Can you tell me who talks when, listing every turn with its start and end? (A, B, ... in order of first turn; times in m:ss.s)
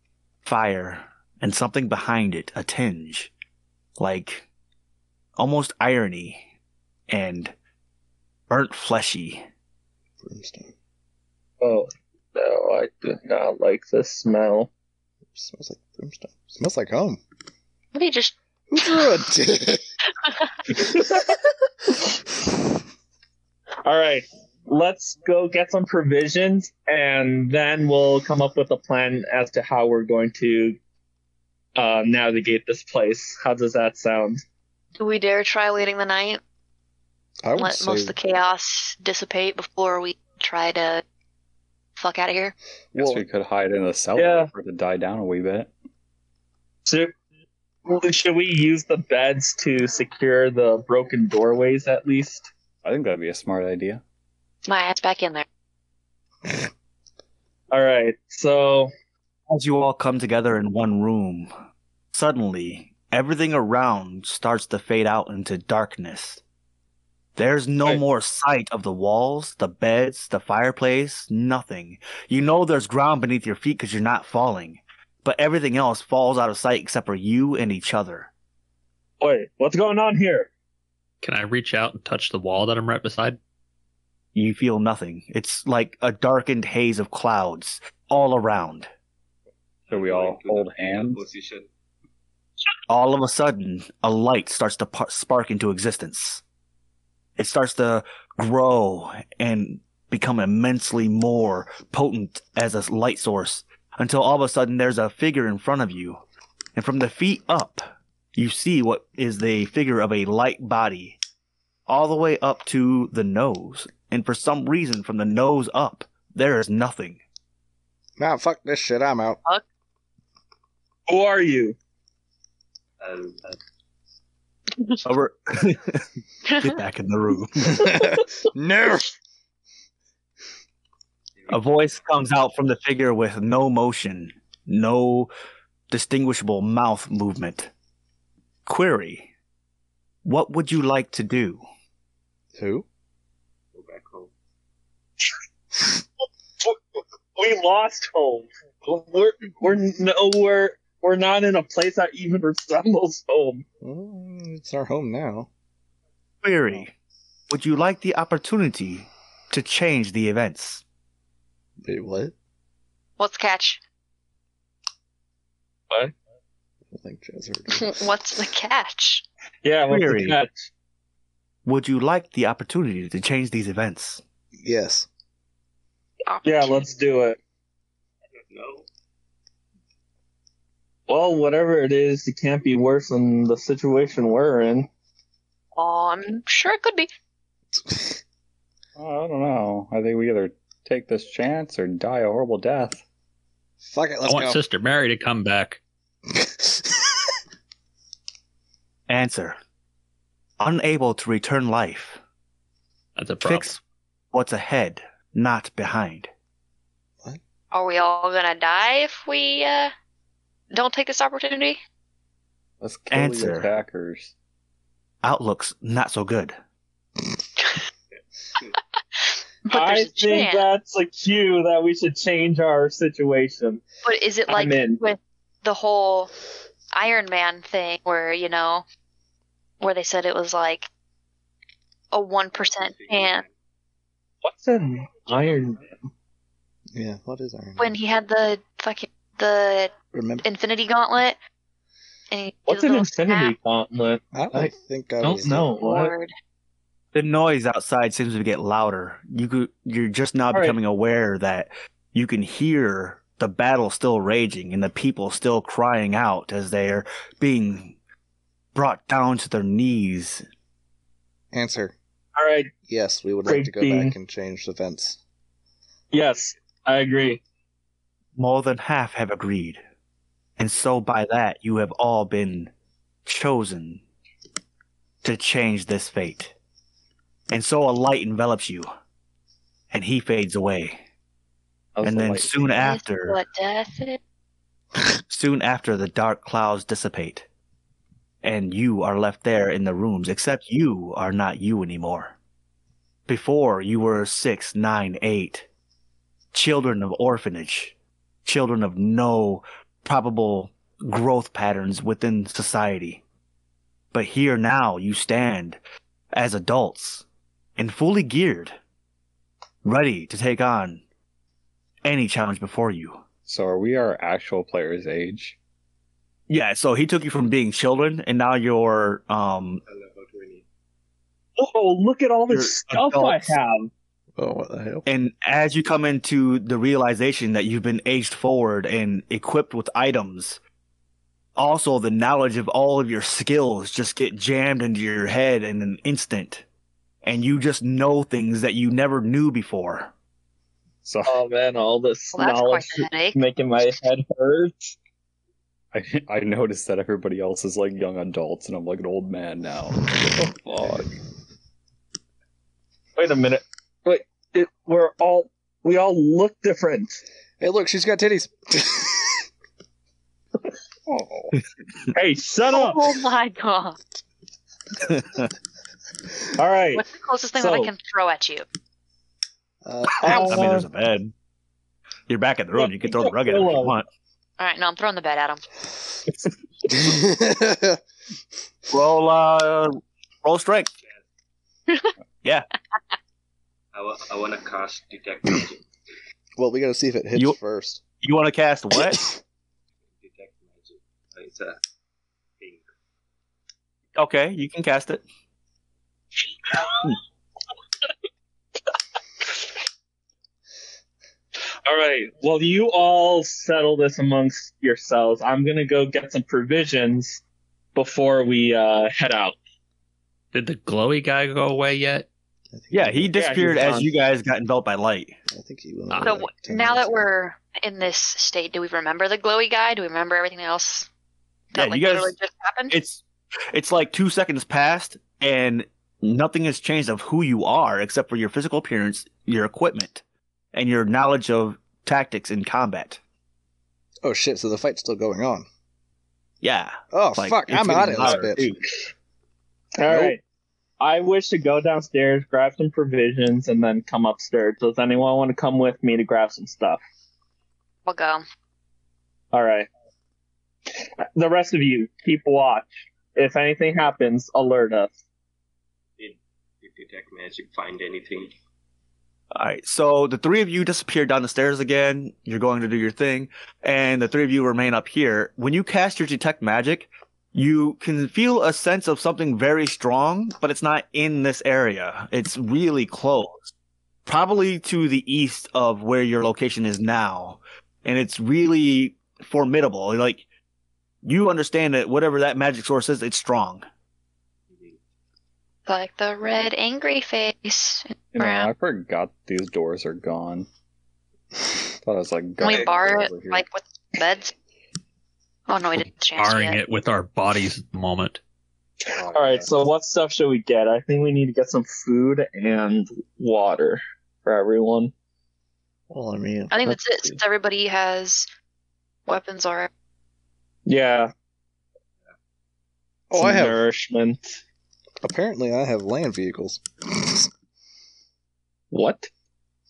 0:00.4-0:03.3 A
0:04.0-0:04.4 A
0:05.4-0:06.4 A
0:07.1-0:07.5 A
0:08.5-0:09.4 A
0:10.2-0:10.7 B
0:11.6-0:14.7 C
0:15.3-0:17.2 B
0:17.9-0:19.1 D
0:18.7-0:19.8 B
0:20.2-0:20.5 D
0:20.8-0:21.3 C
0:23.8-0:30.8 C
0:31.8-0:34.4 C
0:35.0-0:36.4 D
0:37.4-0:38.1 B
0:37.6-0:41.0 D
0:42.0-0:42.5 D
0:42.9-0:45.7 E
0:42.9-0:43.2 B
0:44.1-0:44.5 C
0:46.8-0:47.1 C
0:47.8-0:52.5 C
0:52.8-0:54.0 E
0:54.6-0:55.4 D
0:57.7-0:58.9 C
0:59.5-1:01.5 A
1:02.1-1:06.4 A
1:07.4-1:18.3 A
1:19.2-1:20.5 C
1:21.2-1:23.4 F
1:24.3-1:28.9 A
1:29.9-1:31.7 G
1:29.9-1:31.2 E
1:32.9-1:36.4 A
1:37.4-1:46.2 A
1:46.8-1:51.2 A
1:51.9-1:57.2 A
1:58.2-1:59.4 B
2:01.1-2:01.8 C
2:03.0-2:03.6 G
2:05.0-2:06.0 A
2:06.6-2:07.9 A
2:07.8-2:09.1 B
2:11.4-2:12.1 G
2:11.5-2:15.3 A
2:15.9-2:17.7 A
2:18.6-2:19.3 A
2:20.2-2:21.6 A
2:22.5-2:22.8 B
2:23.7-2:24.3 G
2:27.3-2:33.6 C
2:33.8-2:35.5 B
2:36.4-2:36.9 A
2:37.5-2:40.8 A
2:41.8-2:42.3 B
2:43.2-2:43.8 D
2:46.9-2:48.0 B
2:47.7-2:49.2 D
2:49.6-2:50.6 C
2:49.9-2:50.4 A
2:51.6-2:54.2 A
2:54.6-2:55.1 B
2:56.3-2:56.9 D
2:56.4-2:57.4 C
2:58.5-2:58.8 G
3:01.1-3:04.9 C
3:05.8-3:07.1 D
3:07.7-3:08.2 B
3:09.0-3:13.0 E
3:13.8-3:14.6 B
3:14.2-3:15.8 F
3:16.3-3:17.1 B
3:19.1-3:19.6 A
3:20.6-3:22.2 A
3:23.2-3:23.7 F
3:23.4-3:23.8 A
3:24.3-3:26.3 A
3:27.7-3:29.9 D
3:30.7-3:31.8 D
3:32.8-3:34.3 E
3:33.1-3:33.7 A
3:35.2-3:36.6 A
3:39.7-3:40.7 D
3:39.7-3:43.8 C
3:44.0-3:46.3 D
3:44.5-3:45.0 C
3:46.9-3:48.8 D
3:49.8-3:50.9 D
3:52.1-3:53.4 D
3:52.6-3:53.5 G
3:54.4-3:55.8 C
3:56.9-3:57.9 B
3:57.8-3:59.9 D
4:00.1-4:00.4 B
4:00.4-4:01.4 D
4:02.3-4:03.5 D
4:02.7-4:04.6 C
4:04.3-4:05.7 B
4:05.2-4:06.1 C
4:05.8-4:06.3 D
4:07.1-4:18.0 A
4:10.5-4:10.8 C
4:18.7-4:20.4 A
4:21.5-4:21.9 B
4:22.4-4:22.7 C
4:22.9-4:25.2 B
4:23.4-4:24.1 C
4:26.1-4:27.4 C
4:28.4-4:29.8 A
4:30.6-4:32.7 A
4:33.2-4:34.0 A
4:35.2-4:36.5 A
4:37.5-4:38.9 A
4:39.9-4:41.0 A
4:42.0-4:42.5 E
4:42.0-4:43.4 A
4:42.8-4:44.2 D
4:45.3-4:47.4 A
4:48.4-4:52.3 A
4:53.3-4:55.6 A
4:56.5-4:57.9 A
4:58.4-5:03.2 A
5:04.1-5:05.8 A
5:06.3-5:07.2 A
5:07.8-5:08.8 A
5:09.8-5:11.0 A
5:12.0-5:13.2 A
5:13.4-5:15.6 E
5:16.5-5:19.8 A
5:19.8-5:20.6 G
5:21.6-5:23.9 C
5:22.5-5:23.6 A
5:24.4-5:25.0 B
5:25.0-5:30.6 A
5:31.6-5:36.6 A
5:37.2-5:40.1 A
5:41.0-5:41.4 E
5:41.2-5:44.9 C
5:42.3-5:43.4 D
5:45.9-5:51.2 E
5:53.2-5:57.2 C
5:57.6-5:59.4 B
6:01.1-6:01.5 E
6:02.1-6:03.1 C
6:02.7-6:04.0 D
6:05.1-6:05.5 A
6:06.6-6:07.9 C
6:06.9-6:08.6 D
6:09.8-6:10.6 B
6:10.2-6:10.9 C
6:10.2-6:11.3 A
6:12.3-6:14.0 A
6:12.8-6:14.0 C
6:14.6-6:15.6 D
6:16.9-6:18.0 B
6:18.9-6:20.9 A
6:23.9-6:25.8 G
6:26.6-6:28.0 B
6:28.2-6:29.2 A
6:30.1-6:31.8 G
6:34.2-6:35.2 A
6:41.8-6:47.4 C
6:47.9-6:49.6 C
6:50.5-6:52.3 F
6:52.7-6:53.6 B
6:52.9-6:55.4 A
6:53.3-6:54.1 C
6:55.5-6:57.2 B
6:56.2-7:01.1 D
7:01.7-7:03.0 D
7:01.7-7:02.3 A
7:02.9-7:13.2 A
7:14.2-7:15.6 B
7:16.6-7:18.8 A
7:17.1-7:18.6 B
7:18.2-7:18.8 C
7:20.0-7:20.4 C
7:21.0-7:27.0 C
7:28.0-7:28.4 D
7:29.5-7:29.9 C
7:31.4-7:35.1 C
7:36.2-7:38.5 G
7:39.5-7:53.7 A
7:54.2-8:00.4 A
8:01.2-8:03.8 A
8:04.7-8:05.0 G
8:05.9-8:08.7 D
8:08.3-8:10.7 E
8:12.0-8:13.6 E
8:12.6-8:14.5 D
8:15.7-8:16.8 D
8:16.4-8:18.4 F
8:19.1-8:19.7 E
8:19.2-8:25.1 C
8:26.1-8:27.3 B
8:26.7-8:28.5 D
8:29.3-8:29.9 D
8:30.8-8:31.3 C
8:33.3-8:33.8 B
8:33.3-8:34.6 C
8:35.2-8:37.5 B
8:38.9-8:39.3 C